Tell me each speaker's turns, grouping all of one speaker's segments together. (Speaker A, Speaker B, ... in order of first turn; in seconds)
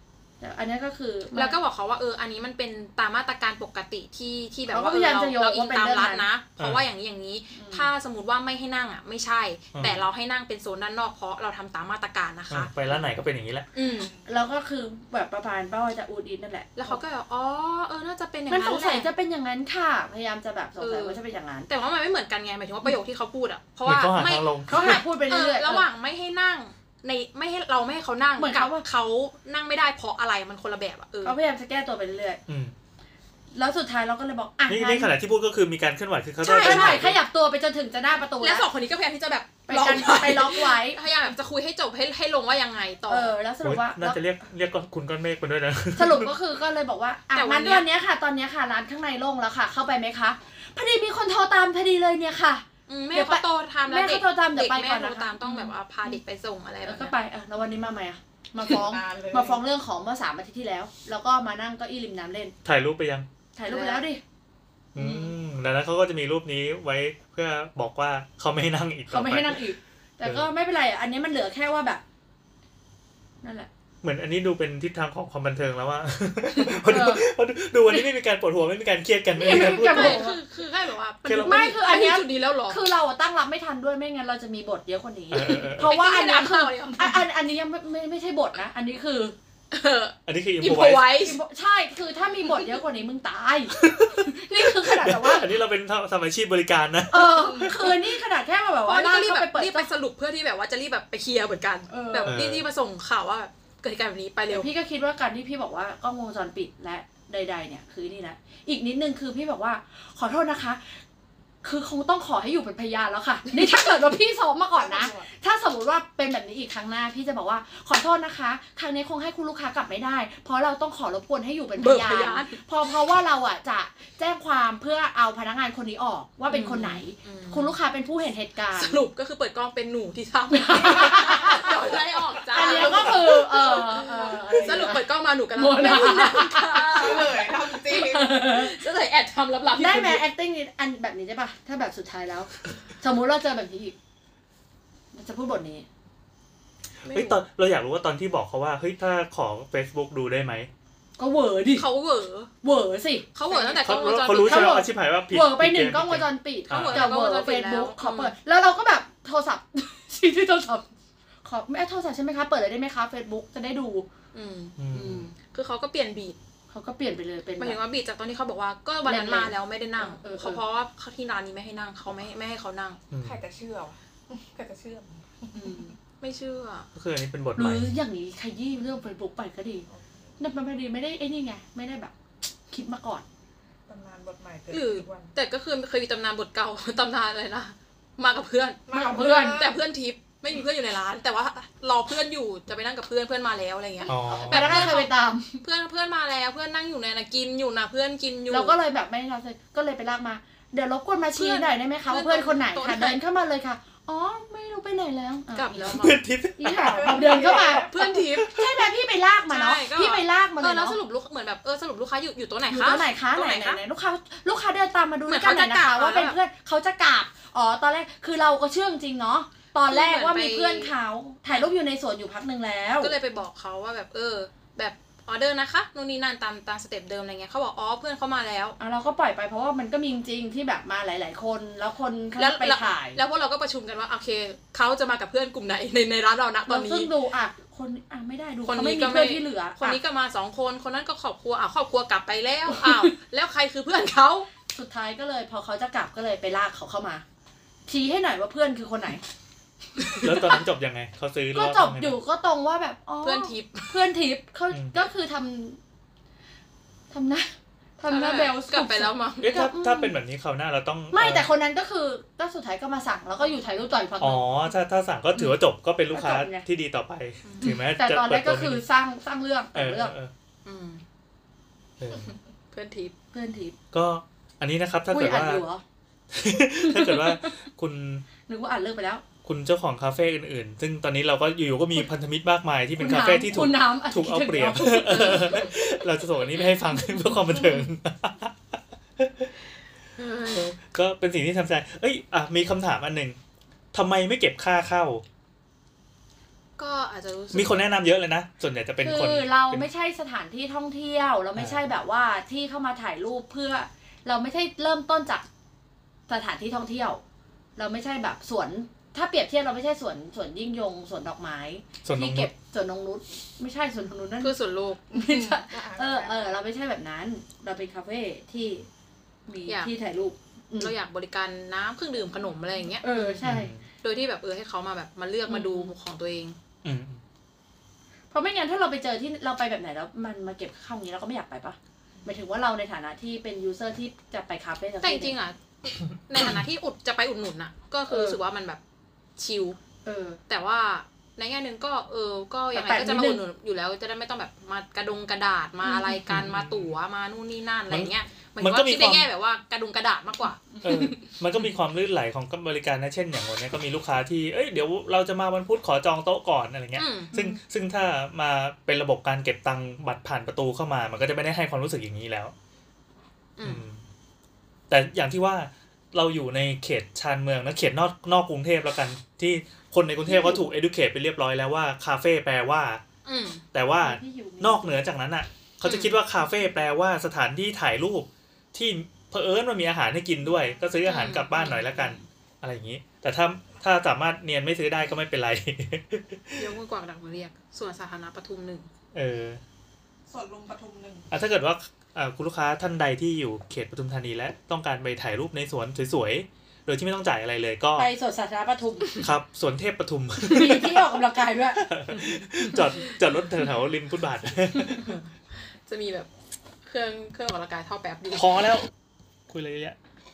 Speaker A: 0.4-1.6, 4.7-6.3, 7.5-7.9, 14.3-17.0, 18.5-21.7, 24.7-25.9, 28.4-28.8, 31.2-32.4, 33.5-35.1, 36.4-38.7, 39.7-41.0, 43.1-44.2, 46.0-56.2, 56.8-62.5, 63.6-64.2, 65.0-65.3, 69.1-72.0, 73.4-73.7, 76.5-77.3, 77.8-78.1, 79.3-80.4, 81.4-89.3, 91.2-95.5, 97.1-99.9, 101.9-102.4, 104.5-111.0, 111.6-129.0, 130.5-131.8, 132.5-135.0, 135.6-138.8, 139.8-143.9, 145.1-145.8, 151.2-151.9, 152.6-160.9, 161.4-164.1, 166.7-167.8, 169.1-170.6, 173.3-173.9, 174.5-175.1, 177.6-179.9, 180.4-182.1, 182.7-183.2, 183.9-185.1, 188.9-189.7, 194.1-195.6, 198.5-206.0, 206.6-211.0, 212.7-223.2, 228.8-233.2, 236.7-240.0, 242.7-243.1, 244.7-247.2, 247.9-249.2, 250.2-250.6, 251.5-255.8, 257.1-260.2, 261.1-264.5, 266.1-266.6, 267.6-270.1, 273.3-273.8, 275.1-275.8, 276.8-277.6, 278.5-279.2, 283.0-285.7, 299.0-305.5, 306.3-307.2, 307.8-314.6, 315.1-318.9, 319.5-320.9, 323.0-323.7, 325.5-325.9, 328.3-335.4, 338.1-338.4, 340.1-340.4, 342.7-343.4, 345.8-346.3, 350.8-351.1, 370.2-370.7, 374.0-375.1, 390.4-390.8, 398.0-399.3, 400.4-401.8
Speaker B: 1.3-12.7, 13.7-14.1, 16.8-19.1, 20.8-31.4, 36.5-37.1, 38.4-43.4, 47.3-47.9, 52.9-57.1, 63.7-64.0, 79.5-82.8, 85.8-87.2, 89.7-91.4, 98.8-104.7, 121.8-122.6, 126.5-127.8, 128.7-140.2, 147.0-147.4, 151.7-152.5, 153.3-154.8, 156.7-158.3, 164.3-166.4, 167.6-173.0, 175.5-176.9, 184.7-198.8, 201.4-203.2, 205.5-206.2, 207.2-208.6, 209.5-213.8, 215.3-216.4, 219.9-220.9, 223.0-228.8, 232.4-237.1, 238.7-244.5, 250.1-250.3, 253.2-254.0, 258.1-259.7, 267.4-267.8, 270.6-271.0, 272.7-273.1, 290.2-290.7, 296.8-297.9, 314.4-315.1, 319.7-319.9, 320.8-323.4, 324.0-326.6, 335.0-338.8, 339.4-339.8, 340.5-351.3, 357.0-357.4, 363.6-363.8, 373.2-373.6, 375.8-376.2, 381.0-382.2, 386.6-388.9, 402.8-403.2, 405.7-406.3, 406.9-408.7
Speaker C: 6.6-6.8, 9.7-10.0, 12.5-13.7, 23.9-25.0, 32.5-32.7, 34.7-37.2, 43.6-46.3, 62.6-63.3, 65.0-69.7, 70.2-70.5, 74.0-80.3, 81.3-81.7, 85.3-85.9, 90.3-91.1, 93.8-98.0, 102.2-102.7, 147.1-150.7, 153.8-157.1, 164.8-165.3, 173.1-173.4, 176.9-178.0, 194.1-194.9, 205.9-207.4, 208.3-208.8, 250.2-252.2, 259.4-261.5, 264.2-268.9, 269.7-270.3, 272.0-272.3, 273.9-275.6, 276.3-278.2, 279.4-289.5, 290.5-293.4, 293.9-295.2, 297.5-299.9, 312.0-312.5, 323.4-323.9, 326.8-327.2, 346.3-346.9, 347.9-349.3, 350.8-362.5, 363.6-364.0, 364.9-373.0, 373.7-386.7, 389.1-389.6, 391.3-398.1, 399.2-401.2, 401.8-405.2, 408.3-408.9, 409.5-410.0
Speaker D: 58.7-59.5, 136.8-138.2, 173.2-175.8, 183.9-185.3, 188.9-189.5, 206.8-208.1, 315.1-316.7, 390.3-391.3